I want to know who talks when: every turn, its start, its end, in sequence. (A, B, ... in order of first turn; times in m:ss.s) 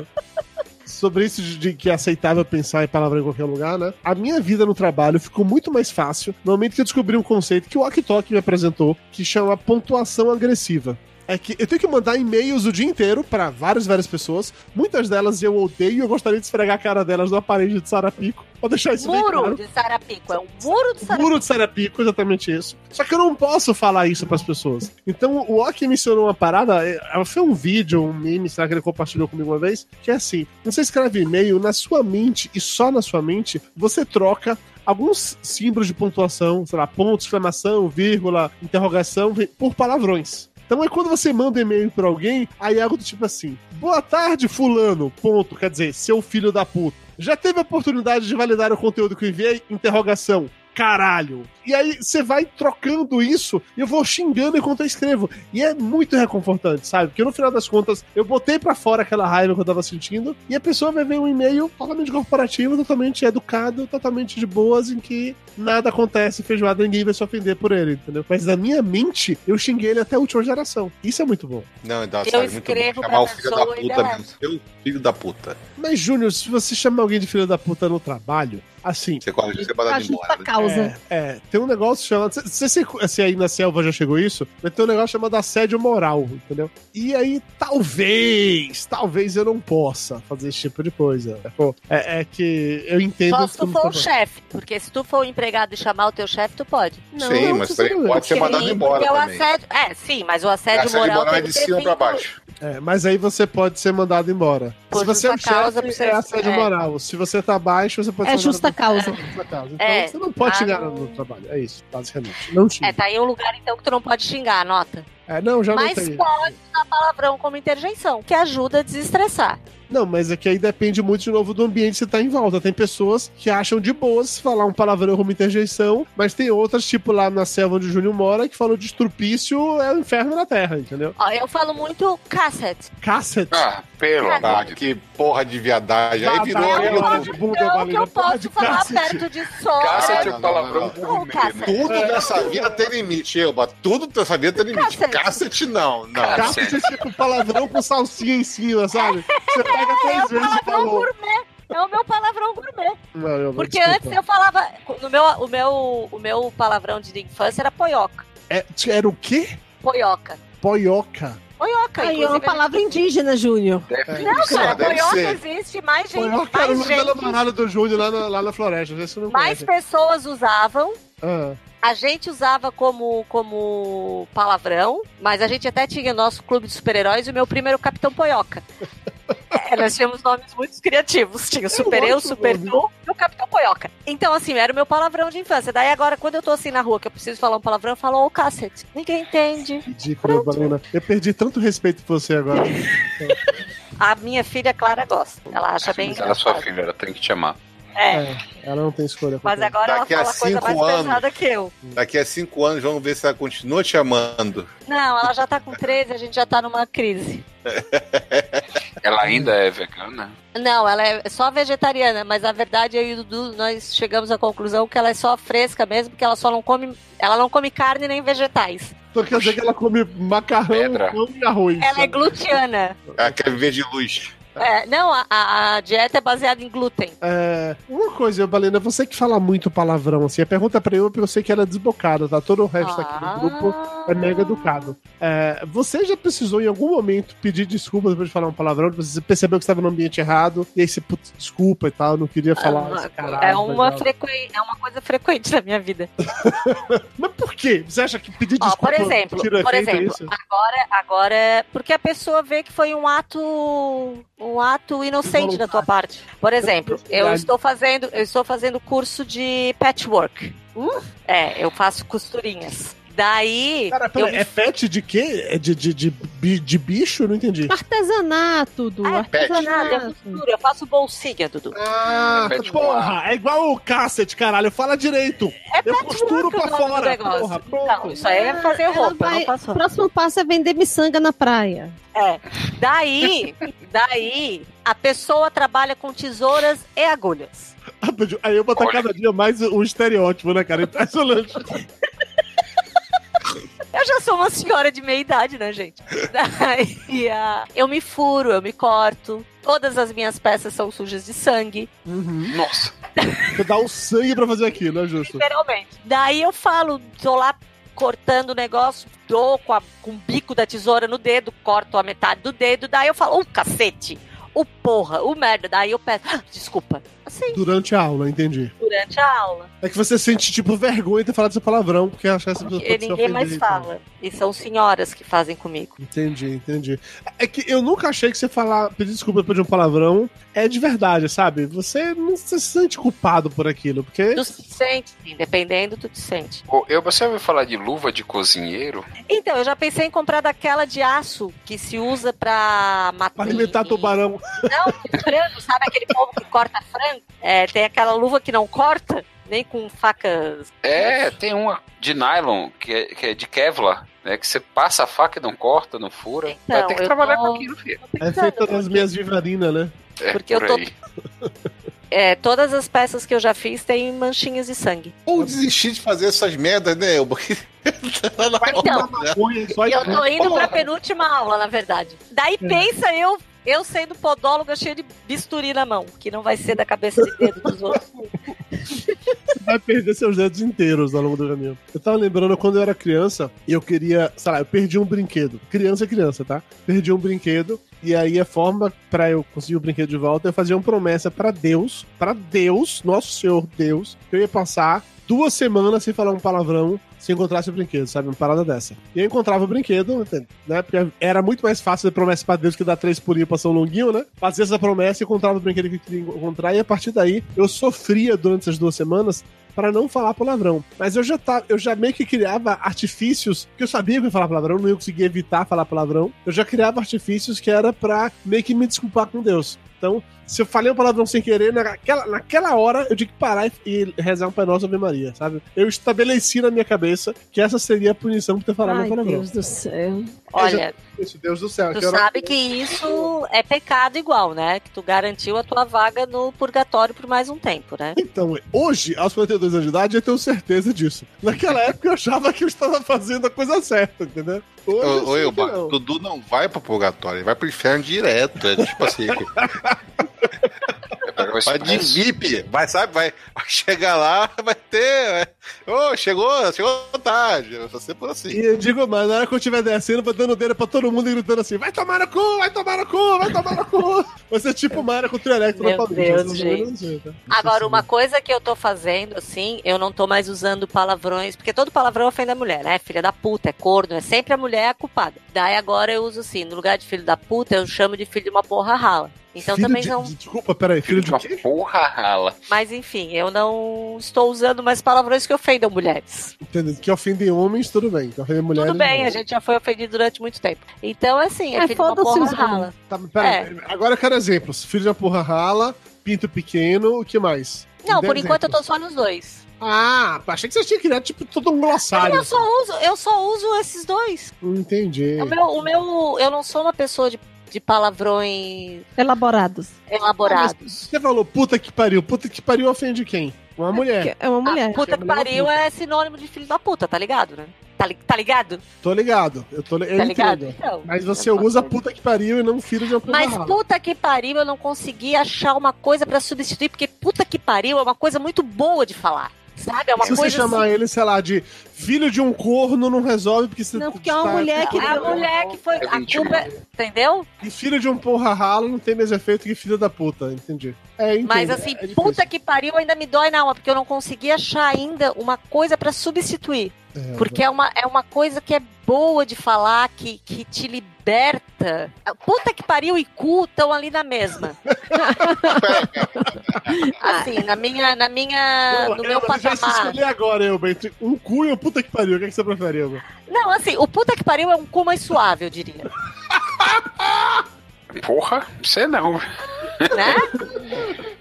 0:00.9-0:19.6 A
0:19.0-0:21.4 B
0:21.0-1:11.7 A
1:11.8-1:15.6 C
1:12.2-1:14.3 B
1:15.8-1:19.2 A
1:19.2-1:20.5 C
1:19.9-1:20.9 D
1:20.6-1:34.1 A
1:33.3-1:37.1 B
1:37.2-1:38.8 A
1:37.2-1:37.7 D
1:37.2-1:39.4 C
1:38.3-1:42.2 B
1:40.7-1:42.4 C
1:42.6-1:53.0 A
1:44.9-1:46.7 B
1:48.2-1:49.1 D
1:49.8-1:51.2 B
1:52.8-1:55.1 B
1:55.3-1:56.5 A
1:55.7-1:59.6 B
1:59.9-2:11.2 A
2:11.2-2:12.9 B
2:13.0-2:13.7 A
2:13.5-2:14.8 E
2:14.2-2:14.5 B
2:14.4-2:17.4 C
2:16.2-2:19.3 A
2:16.6-2:22.2 B
2:19.8-2:22.0 E
2:19.9-2:21.0 C
2:21.6-2:26.7 C
2:21.9-2:22.8 A
2:24.6-2:25.5 B
2:26.2-2:26.8 E
2:26.4-2:31.1 A
2:28.9-2:33.0 B
2:33.1-2:34.2 A
2:33.6-2:38.2 B
2:38.5-2:39.6 A
2:39.8-2:40.4 B
2:40.6-2:41.4 A
2:41.6-2:42.7 B
2:42.0-2:43.9 D
2:43.9-2:44.7 E
2:44.1-2:44.9 A
2:44.2-2:47.4 B
2:44.3-2:45.4 C
2:46.2-2:49.7 A
2:49.3-2:51.0 B
2:51.2-2:51.6 A
2:51.8-2:58.6 B
2:59.5-3:10.6 B
3:01.7-3:02.8 A
3:09.9-3:13.4 A
3:14.0-3:16.7 B
3:15.8-3:17.6 E
3:18.0-3:18.3 B
3:18.1-3:19.7 A
3:19.4-3:21.7 B
3:19.8-3:21.2 C
3:22.0-3:24.7 C
3:24.9-3:27.4 B
3:27.7-3:28.7 C
3:29.0-3:30.3 E
3:29.2-3:29.5 A
3:30.6-3:38.9 B
3:39.1-3:42.6 A
3:39.3-3:39.6 E
3:40.7-3:41.2 E
3:41.8-3:43.0 B
3:43.1-3:43.4 A
3:43.2-3:44.5 C
3:44.6-3:47.2 B
3:47.2-4:04.1 A
3:52.8-3:54.9 B
4:02.6-4:06.1 B
4:06.3-4:10.3 A
4:08.6-4:20.6 B
4:15.2-4:15.9 A
4:16.6-4:17.5 A
4:20.8-4:21.0 D
4:21.3-4:24.5 B
4:23.9-4:27.7 A
4:27.7-4:30.4 D
4:29.0-4:31.8 B
4:29.3-4:29.9 C
4:31.7-4:38.2 A
4:32.4-4:33.2 E
4:35.7-4:39.8 B
4:38.1-4:42.0 D
4:42.2-4:47.7 B
4:48.0-4:51.8 A
4:48.8-4:49.1 E
4:53.9-5:01.9 B
5:02.1-5:02.6 A
5:02.5-5:02.9 E
5:03.2-5:03.5 B
5:03.6-5:05.4 A
5:05.3-5:17.6 B
5:17.5-5:18.7 A
5:18.8-5:19.7 B
5:19.8-5:23.9 A
5:22.6-5:26.0 B
5:26.0-5:34.4 A
5:34.4-5:36.6 B
5:36.7-5:39.1 E
5:39.3-5:50.8 B
5:43.4-5:44.9 A
5:50.8-5:58.0 E
5:56.5-5:59.1 B
5:58.2-5:59.9 A
6:00.2-6:00.9 E
6:00.3-6:00.8 B
6:02.1-6:05.2 B
6:05.3-6:09.4 C
6:08.6-6:10.7 A
6:08.7-6:09.1 B
6:09.9-6:18.3 B
6:17.2-6:17.5 A
6:19.6-7:09.5 A
7:08.8-7:10.4 D
7:10.5-7:11.0 B
7:10.6-7:13.3 A
7:11.9-7:18.2 B
7:18.2-7:25.9 A
7:25.0-7:29.5 C
7:28.8-7:30.6 A
7:31.2-7:32.2 E
7:31.7-7:38.6 C
7:38.5-7:48.1 A
7:45.8-7:46.9 B
7:47.5-8:00.3 B
7:59.6-8:01.6 A
8:01.1-8:02.6 E
8:02.7-8:06.5 B
8:06.6-8:09.4 A
8:08.8-8:13.7 B
8:11.8-8:12.9 D
8:13.0-8:18.8 A
8:18.0-8:19.6 B
8:19.8-8:22.6 A
8:22.1-8:24.5 B
8:24.6-8:26.0 A
8:25.4-8:29.1 B
8:29.2-8:29.9 D
8:30.1-8:30.8 B
8:30.4-8:34.3 A
8:34.0-8:35.0 D
8:34.6-8:38.8 B
8:35.0-8:35.7 A
8:39.0-8:43.8 A
8:40.2-8:42.0 B
8:43.3-8:50.8 B
8:50.2-8:55.8 A
8:54.0-8:55.4 D
8:54.8-8:57.5 B
8:56.0-8:56.7 E
8:57.6-9:02.4 A
9:01.5-9:14.8 B
9:07.2-9:07.6 A
9:14.9-9:15.4 A
9:15.2-9:15.7 D
9:15.6-9:17.1 C
9:17.2-9:17.5 D
9:17.2-9:20.2 B
9:18.9-9:23.2 A
9:23.5-9:26.1 B
9:28.1-9:30.1 E
9:30.1-9:30.5 B